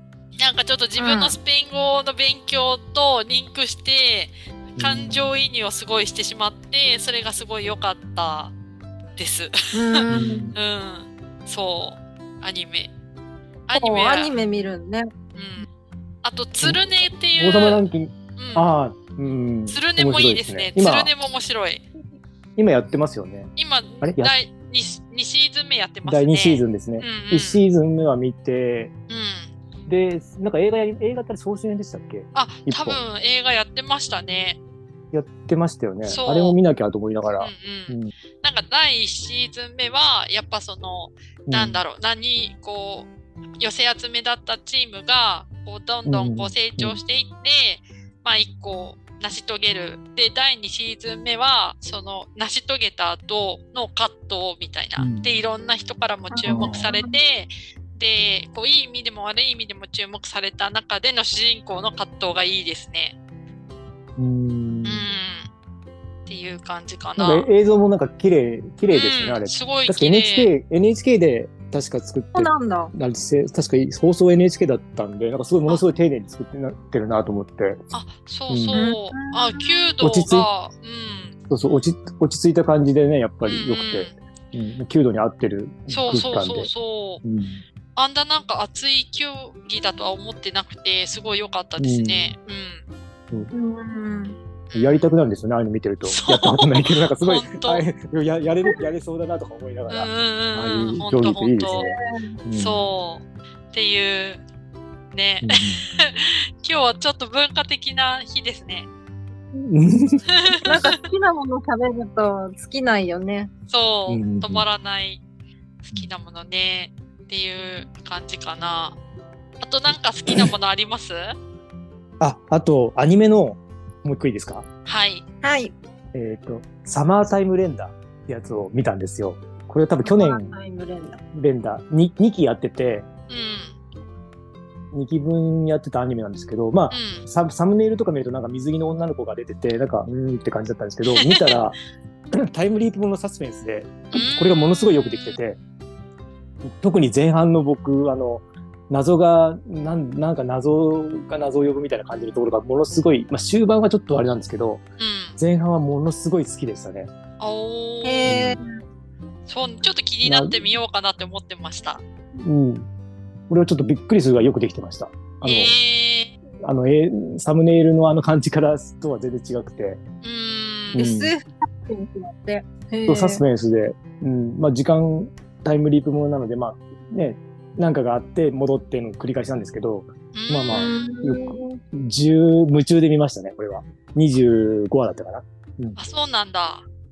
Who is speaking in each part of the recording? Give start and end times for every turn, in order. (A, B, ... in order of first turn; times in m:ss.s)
0:00.4-0:08.5 A
0:01.0-0:01.4 B
0:04.8-0:05.3 C
0:09.2-0:12.9 A
0:09.7-0:10.5 B
0:10.1-0:10.6 C
0:13.7-0:14.3 A
0:13.7-0:15.1 B
0:15.3-0:15.7 A
0:16.2-0:17.8 A
0:17.4-0:21.1 C
0:18.4-0:18.7 A
0:19.7-0:21.8 A
0:22.6-0:23.5 C
0:23.6-0:27.6 A
0:24.0-0:24.3 C
0:26.0-0:28.9 C
0:29.1-0:29.5 A
0:29.9-0:33.0 C
0:32.3-0:34.6 A
0:35.1-0:38.1 C
0:36.0-0:36.6 A
0:37.4-1:03.2 A
0:41.5-0:41.8 C
0:46.0-0:47.0 C
0:55.0-0:55.3 C
0:56.3-0:57.1 B
0:56.5-0:56.9 C
1:04.2-1:05.0 C
1:04.8-1:05.5 A
1:06.3-1:07.5 A
1:07.2-1:17.8 C
1:08.9-1:10.5 A
1:12.3-1:12.9 B
1:17.9-1:21.4 A
1:18.5-1:18.8 C
1:18.7-1:19.7 B
1:20.0-1:20.5 C
1:21.5-1:26.7 C
1:23.4-1:24.2 A
1:25.9-1:27.2 A
1:27.2-1:27.6 C
1:28.0-1:32.8 A
1:31.8-1:32.3 C
1:33.5-1:34.4 B
1:34.7-1:35.1 A
1:34.7-1:42.8 C
1:36.0-1:37.8 A
1:39.9-1:41.9 A
1:41.7-1:42.3 B
1:42.5-1:44.4 A
1:45.1-1:48.9 A
1:45.4-1:45.8 C
1:49.6-1:50.2 C
1:50.3-1:51.0 A
1:50.6-1:53.5 B
1:53.7-1:55.2 A
1:54.1-1:54.6 C
1:55.8-1:59.0 A
1:59.6-2:01.3 A
2:02.2-2:04.7 C
2:04.8-2:05.2 A
2:05.4-2:05.7 B
2:06.1-2:10.5 C
2:10.0-2:11.2 B
2:11.3-2:13.1 C
2:13.3-2:13.8 A
2:14.9-2:21.8 C
2:16.9-2:17.2 A
2:21.0-2:21.6 A
2:22.4-2:25.6 C
2:24.1-2:25.4 A
2:26.6-2:34.8 C
2:35.0-2:35.4 A
2:35.4-2:37.1 C
2:37.4-2:38.4 A
2:38.0-2:38.6 B
2:38.2-2:38.6 C
2:39.5-2:42.0 A
2:40.2-2:40.6 C
2:42.4-2:42.9 C
2:43.5-2:45.7 C
2:45.4-2:46.3 A
2:46.6-2:50.0 C
2:50.2-2:51.1 A
2:50.9-2:51.3 C
2:51.0-2:53.4 B
2:53.0-3:06.0 C
3:00.3-3:01.0 A
3:00.7-3:01.8 B
3:06.0-3:06.8 A